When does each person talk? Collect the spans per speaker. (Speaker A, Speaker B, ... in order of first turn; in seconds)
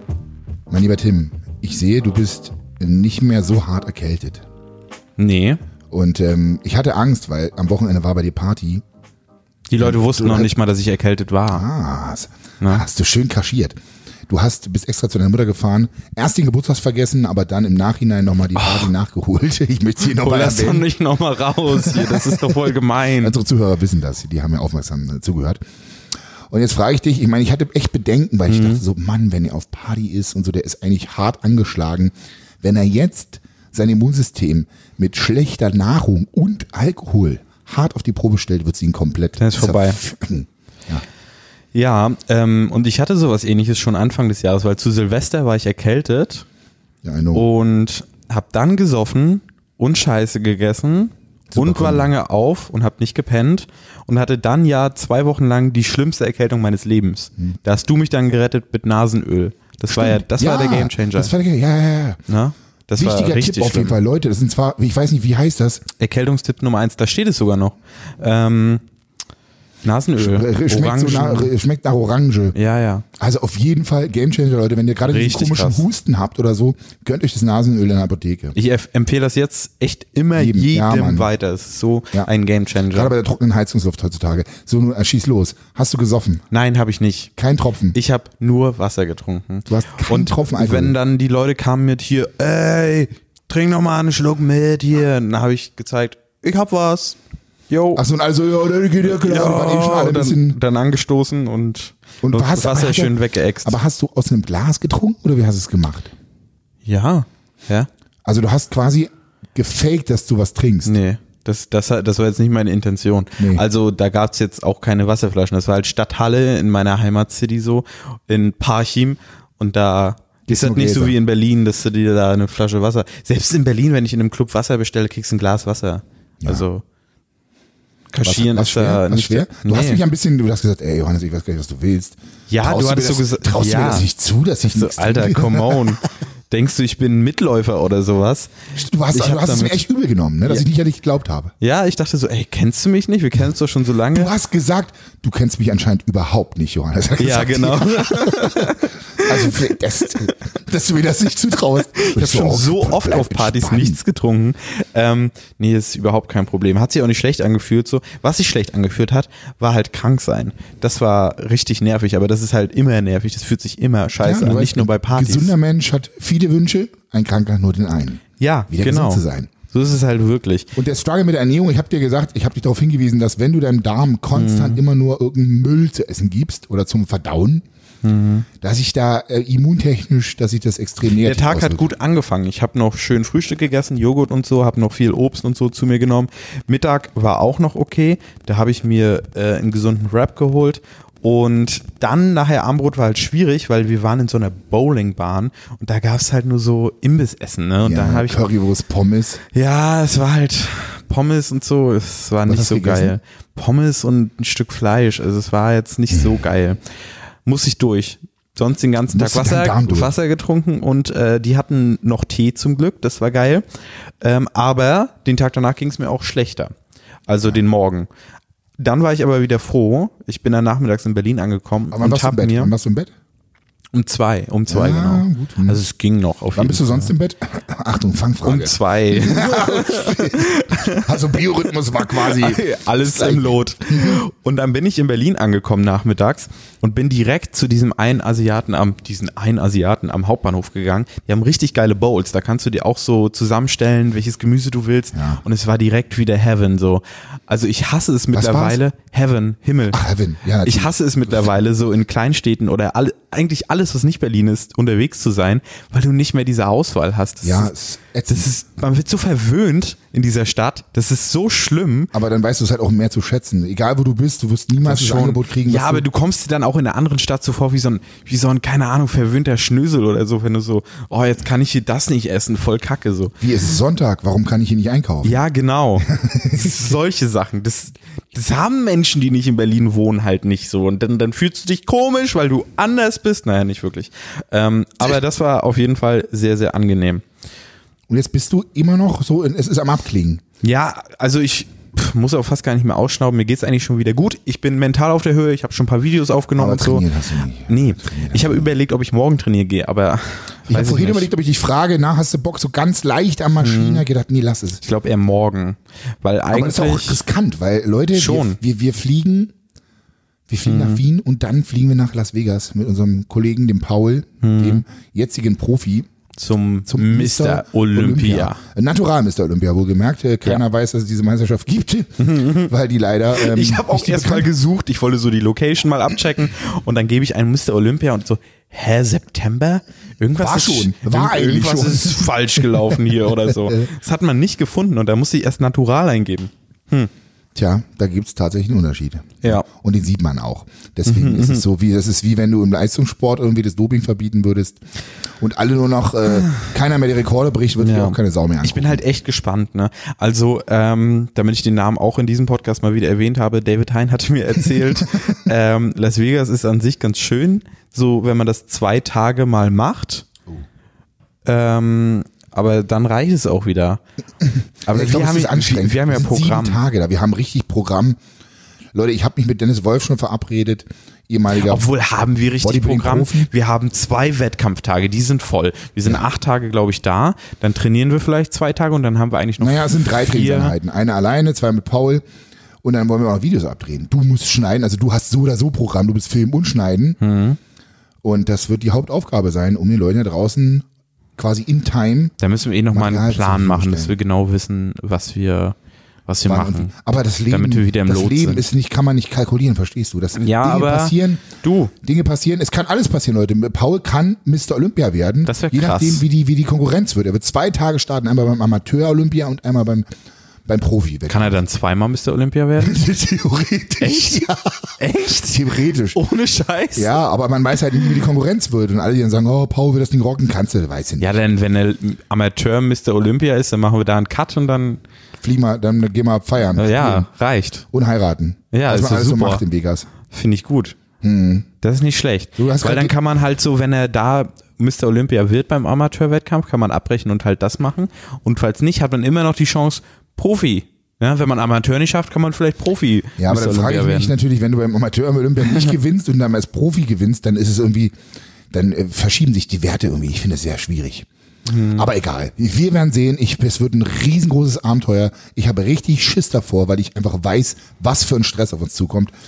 Speaker A: 0.7-4.4, 5.9-8.8, 9.8-10.5, 11.5-13.8, 14.3-20.9, 21.7-25.6, 26.5-41.0, 47.0-47.5, 51.5-52.1, 59.9-62.2, 63.0-65.8, 70.2-72.6, 73.2-78.5, 80.4-81.3, 82.9-86.4, 87.4-88.0, 89.7-91.0, 98.0-100.6, 102.2-106.1, 108.2-111.0, 113.4-113.6, 120.5-121.2, 128.2-136.0, 138.7-141.5, 144.1-154.0, 164.2-169.5, 170.8-177.6, 178.6-181.8, 197.8-199.4, 202.5-203.2, 209.1-210.1, 221.9-223.1, 224.7-225.8, 226.6-234.2, 245.1-245.4, 248.3-248.8, 249.9-250.9, 257.4-258.5, 262.1-266.1, 273.4-275.4, 276.1-276.9, 288.1-290.4, 296.6-298.7, 300.7-304.8, 306.5-309.5, 310.5-316.1, 316.9-324.5, 330.4-333.9, 337.6-344.8, 345.4-349.0, 364.4-368.2, 368.9-371.9, 372.6-373.5, 379.6-382.2, 382.8-387.2, 388.2-392.3, 392.9-394.1, 396.5-401.4, 402.0-410.1, 410.7-411.6, 412.8-416.2, 416.9-421.4, 425.4-427.3, 427.9-430.1, 431.2-431.7, 432.6-433.2, 443.4-448.1, 448.7-451.3, 451.9-459.3
Speaker B: 5.2-5.6, 9.7-11.7, 18.6-18.9, 20.1-23.4, 28.5-28.8, 39.4-40.0, 41.7-46.5, 47.3-61.3, 62.3-64.0, 66.0-68.8, 69.8-71.5, 72.5-73.0, 75.1-75.9, 78.5-83.1, 86.5-87.3, 87.9-97.2, 97.7-98.0, 99.0-103.8, 106.9-107.9, 110.9-126.8, 128.1-130.0, 132.5-134.1, 134.6-138.5, 139.1-139.8, 141.6-144.3, 147.2-149.7, 152.0-165.5, 168.4-170.7, 174.3-174.8, 178.0-178.5, 181.2-198.5, 199.5-206.8, 207.4-213.6, 214.2-216.7, 217.3-218.1, 218.8-222.7, 223.9-227.1, 228.4-231.1, 232.0-250.0, 250.6-257.7, 258.3-262.1, 264.8-273.4, 275.2-287.2, 290.6-297.1, 297.7-301.3, 303.6-304.0, 304.8-307.2, 308.1-308.6, 310.6-311.0, 314.4-314.8, 316.4-318.6, 322.2-322.7, 323.3-337.1, 341.1-341.6, 347.8-360.3, 361.4-364.0, 364.9-366.8, 371.6-380.8, 387.2-387.6, 392.4-395.8, 396.3-396.9, 397.5-398.7, 400.4-401.9, 405.5-406.2, 411.3-413.0, 414.0-414.4, 415.0-415.6, 416.1-417.2, 421.2-425.0, 426.8-427.9, 428.7-429.6, 430.3-431.0, 431.8-444.3, 445.7-445.9, 451.7-452.1